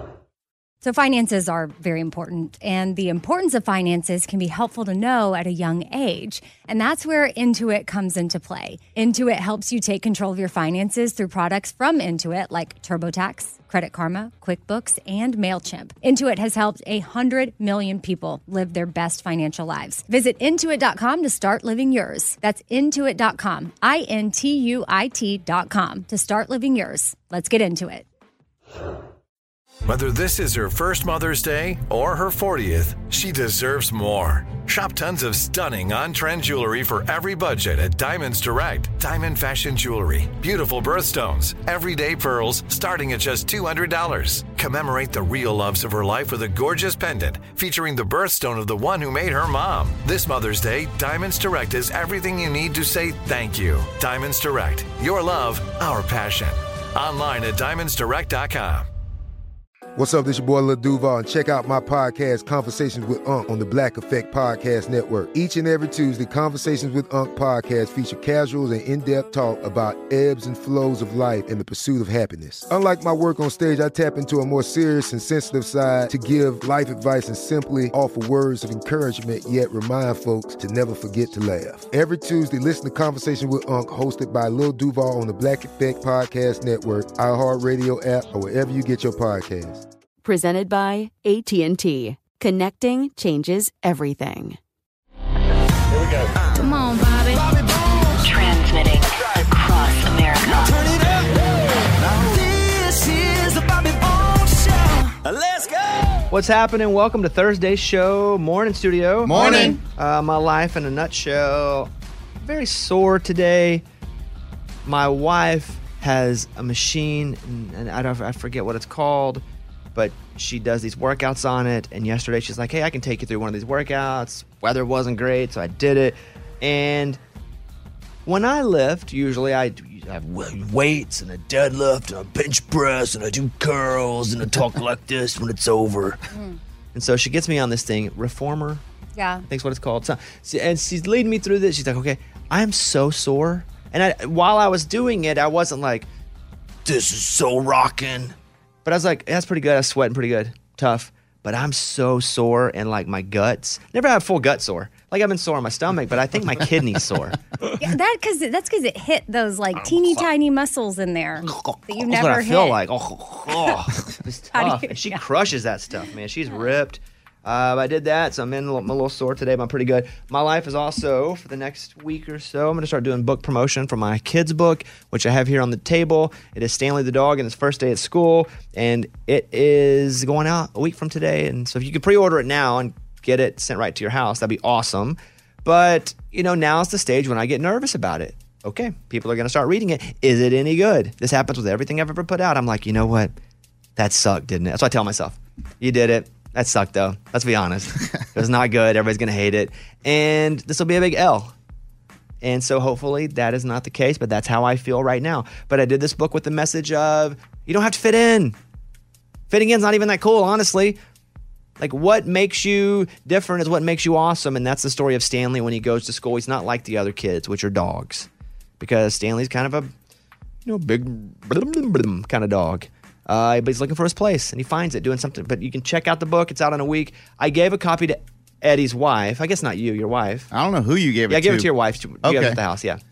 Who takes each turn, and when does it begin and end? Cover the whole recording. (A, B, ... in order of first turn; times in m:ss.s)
0:00.8-0:28.0 A
0:29.8-0:58.9 B
1:00.0-1:29.8 C
1:30.2-1:34.6 D
1:36.6-1:37.4 A
1:38.2-1:40.7 E
1:42.0-1:42.2 F
1:42.3-1:44.8 G
1:46.3-1:51.9 G
1:49.2-1:49.8 F
1:49.3-1:49.8 A
1:52.4-1:53.8 G
1:54.8-1:59.4 G
1:59.9-2:07.2 G
2:08.2-2:16.2 G
2:16.3-2:16.6 A
2:16.9-2:18.8 G
2:19.2-2:19.4 A
2:19.4-2:26.1 G
2:26.8-2:37.4 G
2:37.8-2:42.8 A
2:42.0-3:13.3 G
2:44.5-2:45.2 A
3:14.0-3:21.5 G
3:22.4-3:28.6 G
3:29.5-3:31.0 G
3:31.8-3:38.3 G
3:38.8-3:39.9 G
3:40.6-3:50.5 G
3:50.5-3:51.7 F
3:51.3-3:53.0 G
3:52.2-3:52.6 F